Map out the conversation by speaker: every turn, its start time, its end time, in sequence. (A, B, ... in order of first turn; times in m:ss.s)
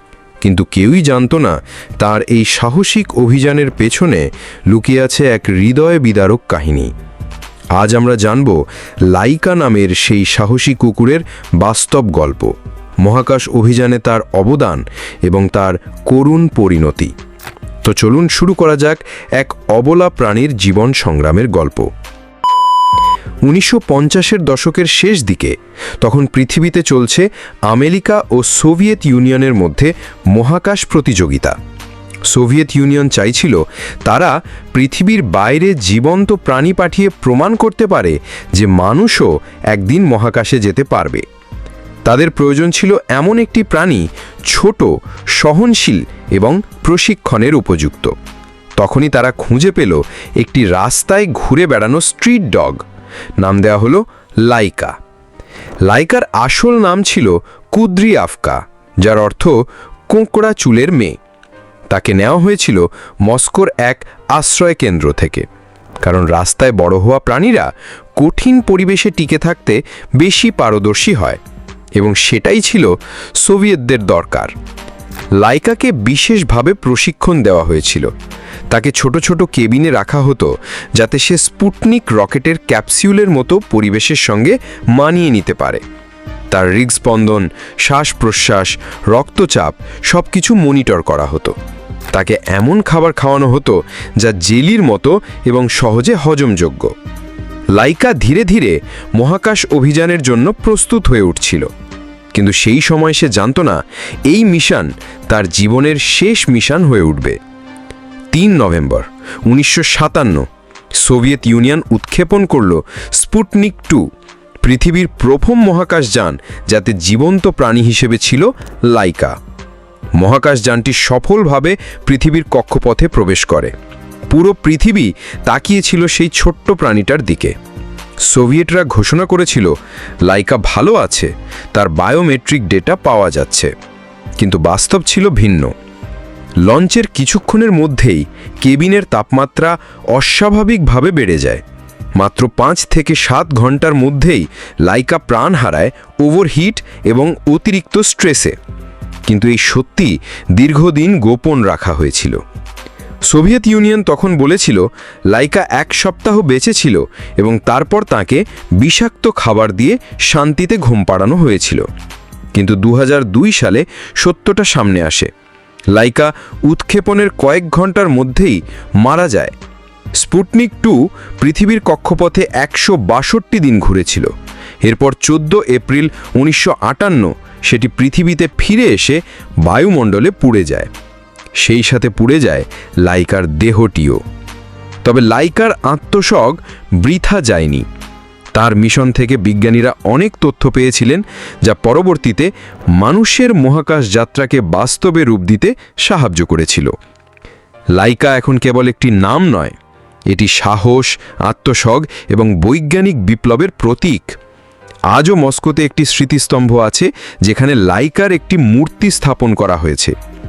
0:00.4-0:06.9 A
0:07.8-0:17.1 A
0:17.8-0:21.9 A
0:23.4-0:31.6 A
0:32.3-0:41.2 A
0:42.1-0:48.1 A
0:48.8-0:52.8 A
0:53.4-0:55.0 A
0:55.9-1:01.2 A
1:01.9-1:05.5 A
1:06.0-1:11.4 A
1:12.0-1:14.5 A
1:15.4-1:18.1 A
1:18.7-1:25.8 A
1:26.5-1:31.6 A
1:32.1-1:36.9 A
1:37.8-1:41.7 A
1:42.3-1:47.4 A
1:48.3-1:54.1 A
1:54.6-1:59.4 A
2:00.2-2:03.7 A
2:04.3-2:07.6 A
2:08.3-2:09.7 A
2:10.3-2:13.7 A
2:14.4-2:15.7 A
2:16.6-2:21.6 A
2:22.2-2:28.6 A
2:29.3-2:32.4 A
2:33.3-2:41.9 A
2:42.5-2:45.3 A
2:45.9-2:49.5 A
2:50.2-2:54.3 A
2:54.8-3:00.9 A
3:01.6-3:04.2 A
3:05.0-3:07.8 A
3:08.6-3:16.9 A
3:18.0-3:19.8 A
3:20.3-3:24.4 A
3:25.1-3:30.2 A